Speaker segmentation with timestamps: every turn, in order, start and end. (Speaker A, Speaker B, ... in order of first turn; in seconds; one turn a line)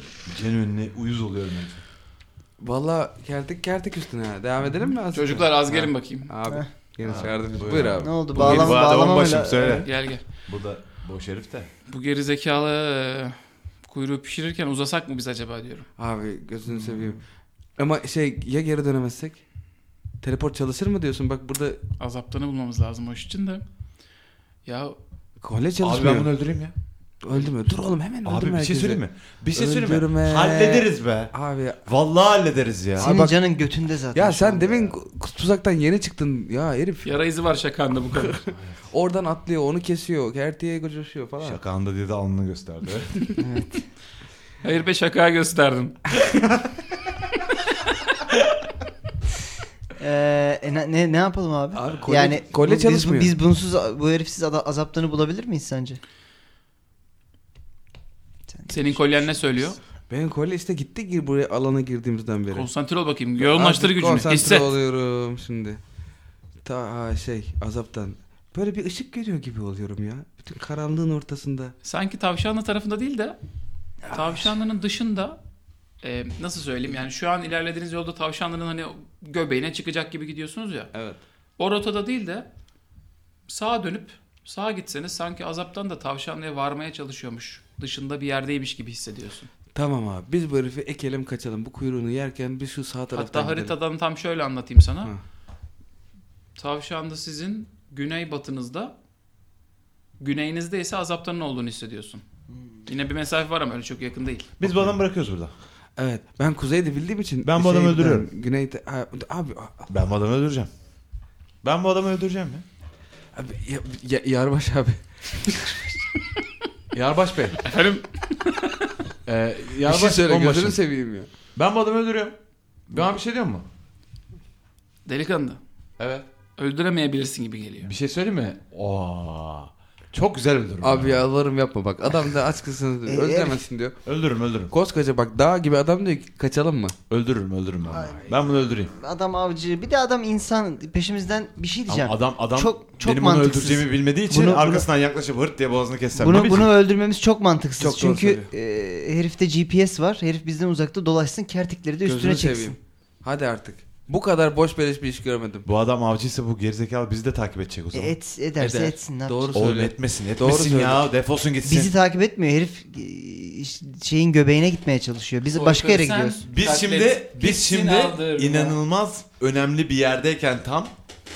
Speaker A: 0.2-1.8
Speaker B: 2.6-8.8
Speaker C: 5.1-6.3
Speaker D: 6.5-9.8
Speaker A: 7.0-11.7
Speaker C: 9.8-10.2
Speaker C: 11.9-15.9
Speaker B: 16.0-17.2
Speaker B: 17.8-19.4
Speaker B: 20.2-21.8
Speaker C: 22.0-23.6
Speaker C: 24.6-24.9
Speaker B: 25.4-26.3
Speaker A: 25.8-26.7
Speaker B: 27.2-29.0
Speaker A: 28.2-31.3
Speaker B: 29.5-31.8
Speaker A: 31.8-33.1
Speaker B: 33.0-33.4
Speaker D: 33.0-34.9
Speaker B: 34.1-37.1
Speaker C: 37.0-38.4
Speaker B: 38.9-41.6
Speaker A: 41.4-43.3
Speaker D: 43.4-43.8
Speaker C: 44.6-46.0
Speaker D: 50.0-56.0
Speaker B: 51.7-53.3
Speaker D: 58.5-59.1
Speaker C: 58.7-59.8
Speaker B: 60.1-62.7
Speaker C: 62.5-64.8
Speaker B: 63.4-65.8
Speaker B: 66.6-71.7
Speaker C: 71.8-73.4
Speaker C: 74.1-75.4
Speaker C: 76.0-80.9
Speaker B: 80.9-81.2
Speaker C: 81.6-82.5
Speaker C: 83.5-89.5
Speaker B: 89.7-93.7
Speaker C: 93.1-95.1
Speaker C: 96.5-98.9
Speaker C: 100.2-102.2
Speaker C: 102.9-104.5
Speaker A: 104.6-105.5
Speaker B: 104.7-104.9
Speaker B: 106.0-109.9
Speaker A: 107.4-108.3
Speaker A: 109.9-110.7
Speaker A: 111.6-112.6
Speaker B: 113.3-115.9
Speaker A: 116.9-117.7
Speaker C: 117.6-118.9
Speaker A: 119.2-120.8
Speaker B: 119.8-121.3
Speaker A: 121.5-122.3
Speaker A: 122.9-123.6
Speaker C: 125.0-125.6
Speaker A: 126.0-126.2
Speaker C: 126.6-127.9
Speaker A: 127.8-131.2
Speaker B: 130.8-134.0
Speaker D: 133.0-133.6
Speaker A: 134.0-134.7
Speaker B: 134.7-136.9
Speaker A: 137.1-138.9
Speaker D: 137.9-138.4
Speaker D: 138.9-144.8
Speaker A: 141.9-146.7
Speaker D: 146.2-152.8
Speaker B: 147.8-148.5
Speaker B: 152.1-155.7
Speaker A: 155.6-158.1
Speaker D: 157.9-159.5
Speaker B: 158.6-161.0
Speaker A: 159.5-161.9
Speaker D: 161.6-166.4
Speaker C: 165.5-168.7
Speaker A: 166.5-170.9